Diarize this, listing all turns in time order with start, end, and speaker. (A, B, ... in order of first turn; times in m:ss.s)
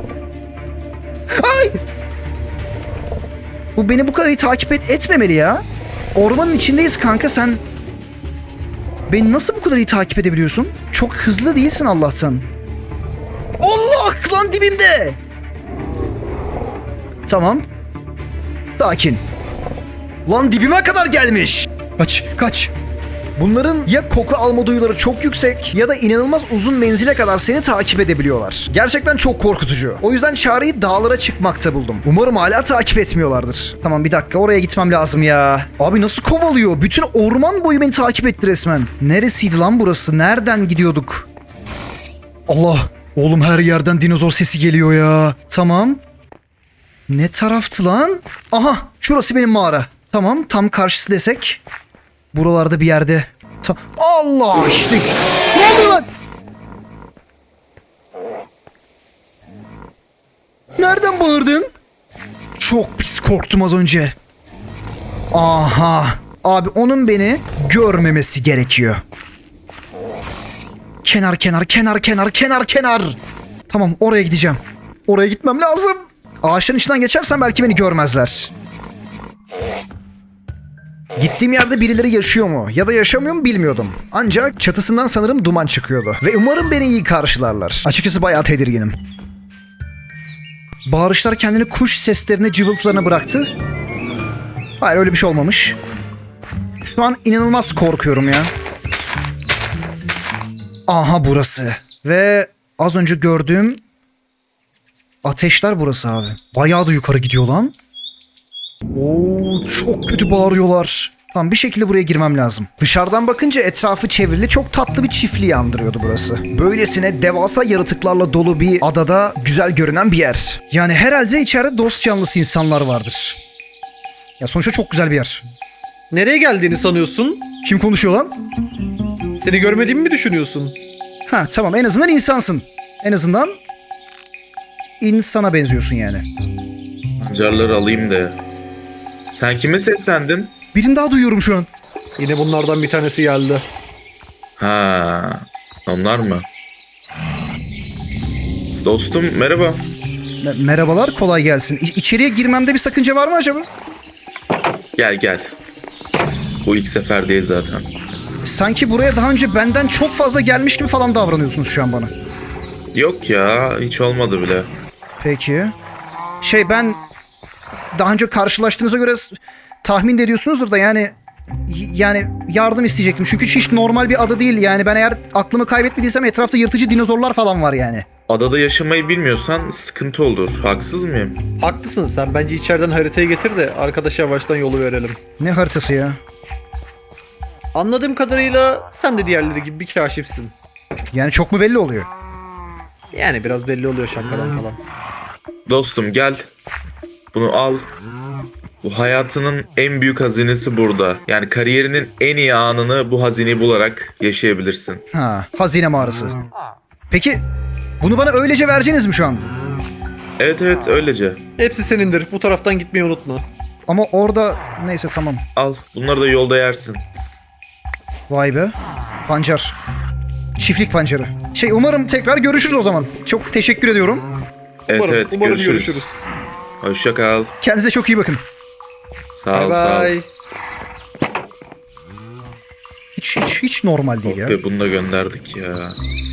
0:01.3-0:01.8 A
0:03.8-0:05.6 A
0:06.1-0:07.6 A
0:09.1-0:12.5 A
0:13.6-0:15.2 A
0:17.3-0:17.7 A
0:18.7-0:19.2 A
0:20.2-0:22.7 A
0:23.4-0:41.3 A
0:42.5-0:46.0 A
0:47.1-0:51.6 A
0:52.3-0:56.1 A
1:00.8-1:01.7 A
1:02.6-1:04.1 A
1:05.3-1:09.0 A
1:11.0-1:18.5 A
1:21.2-1:29.0 A
1:30.9-1:33.5 A
1:34.8-1:35.8 A
1:36.8-1:38.5 A
1:40.9-1:43.8 A
1:45.2-1:47.8 A
1:48.9-2:03.4 A
2:04.4-2:05.4 A
2:06.1-2:07.5 B
2:07.6-2:08.3 A
2:09.4-2:10.8 B
2:11.3-2:13.6 A
2:15.0-2:16.2 A
2:17.2-2:18.4 C
2:19.3-2:20.5 C
2:20.7-2:21.7 A
2:22.2-2:23.6 B
2:24.6-2:26.5 C
2:28.8-2:29.8 C
2:30.4-2:33.7 A
2:35.0-2:35.5 C
2:36.6-2:37.9 C
2:38.4-2:42.1 A
2:42.9-2:44.7 C
2:45.2-2:45.8 A
2:46.4-2:47.0 A
2:48.0-2:51.2 A
2:51.7-2:58.0 A
2:58.3-3:01.4 C
3:01.6-3:05.2 B
3:05.4-3:06.2 A
3:07.7-3:10.5 B
3:11.1-3:12.1 A
3:13.1-3:14.8 B
3:15.7-3:16.4 C
3:17.3-3:17.9 C
3:18.8-3:25.0 C
3:25.1-3:26.4 A
3:27.1-3:27.4 A
3:28.0-3:29.4 A
3:30.4-3:31.4 C
3:31.6-3:33.4 B
3:33.9-3:35.4 A
3:35.6-3:37.0 C
3:38.3-3:38.7 A
3:39.2-3:39.8 A
3:40.6-3:44.2 A
3:44.9-3:46.1 C
3:44.9-3:46.2 B
3:46.8-3:47.5 C
3:47.6-3:48.4 A
3:49.4-3:50.2 C
3:49.5-3:50.2 B
3:53.2-3:54.6 A
3:54.2-3:56.0 C